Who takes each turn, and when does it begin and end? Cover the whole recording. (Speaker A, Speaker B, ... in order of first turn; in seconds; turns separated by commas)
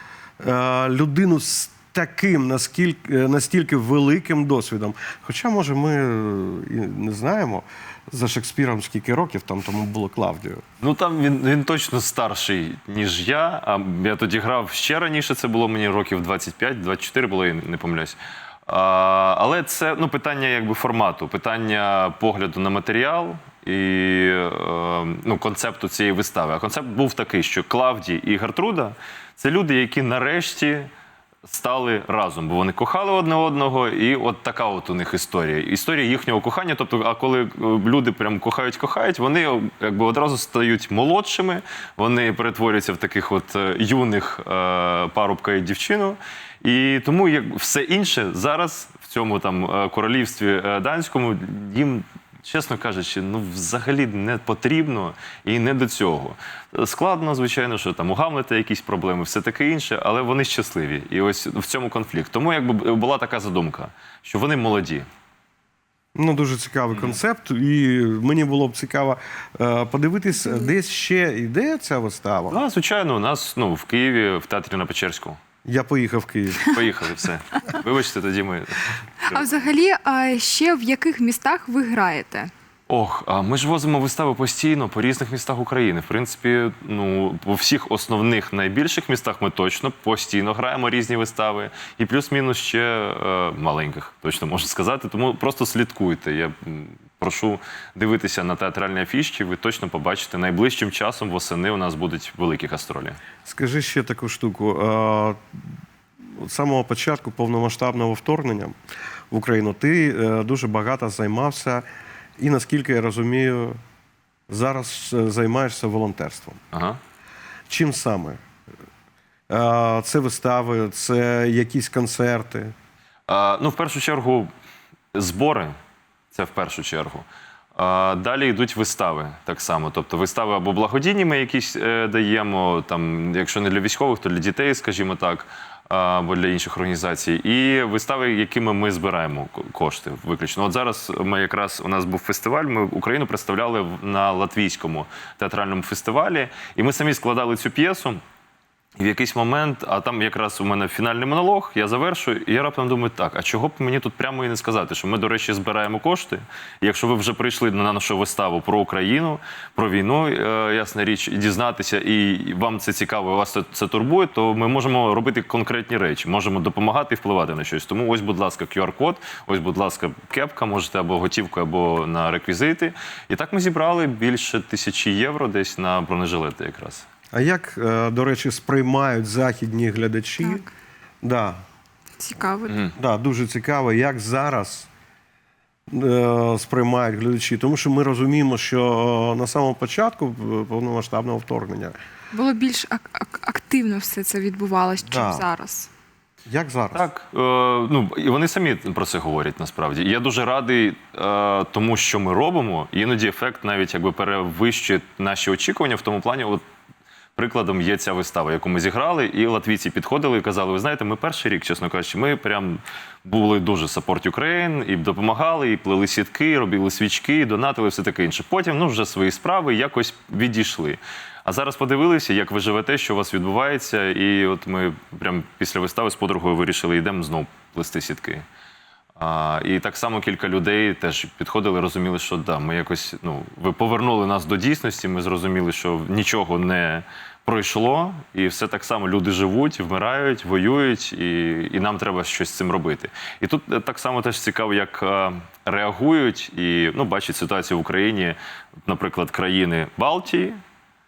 Speaker A: 0.4-10.6, Speaker B: 10.8-30.9, Speaker B: 31.4-65.1, Speaker A: 66.2-72.6, Speaker B: 66.9-67.2, Speaker B: 72.5-75.4, Speaker A: 75.6-76.8, Speaker B: 76.6-79.7, Speaker C: 79.2-82.5, Speaker B: 82.9-103.2, Speaker A: 103.4-105.4, Speaker A: 106.4-108.7, Speaker A: 109.3-111.8, Speaker A: 112.4-113.8, Speaker A: 114.5-116.6, Speaker B: 116.7-117.0, Speaker A: 117.7-118.4, Speaker A: 119.5-122.7, Speaker B: 123.3-124.5, Speaker B: 125.1-125.7, Speaker B: 126.3-148.2, Speaker B: 149.0-177.1, Speaker A: 177.3-180.6, Speaker C: 180.4-180.7, Speaker A: 181.2-181.6, Speaker C: 182.2-182.8, Speaker B: 182.7-182.9, Speaker A: 182.9-184.9, Speaker A: 185.9-191.9, Speaker C: 192.3-195.9, Speaker A: 195.0-195.5, Speaker A: 196.5-197.1, Speaker B: 196.9-206.6, Speaker B: 207.3-228.4, Speaker B: 229.2-250.6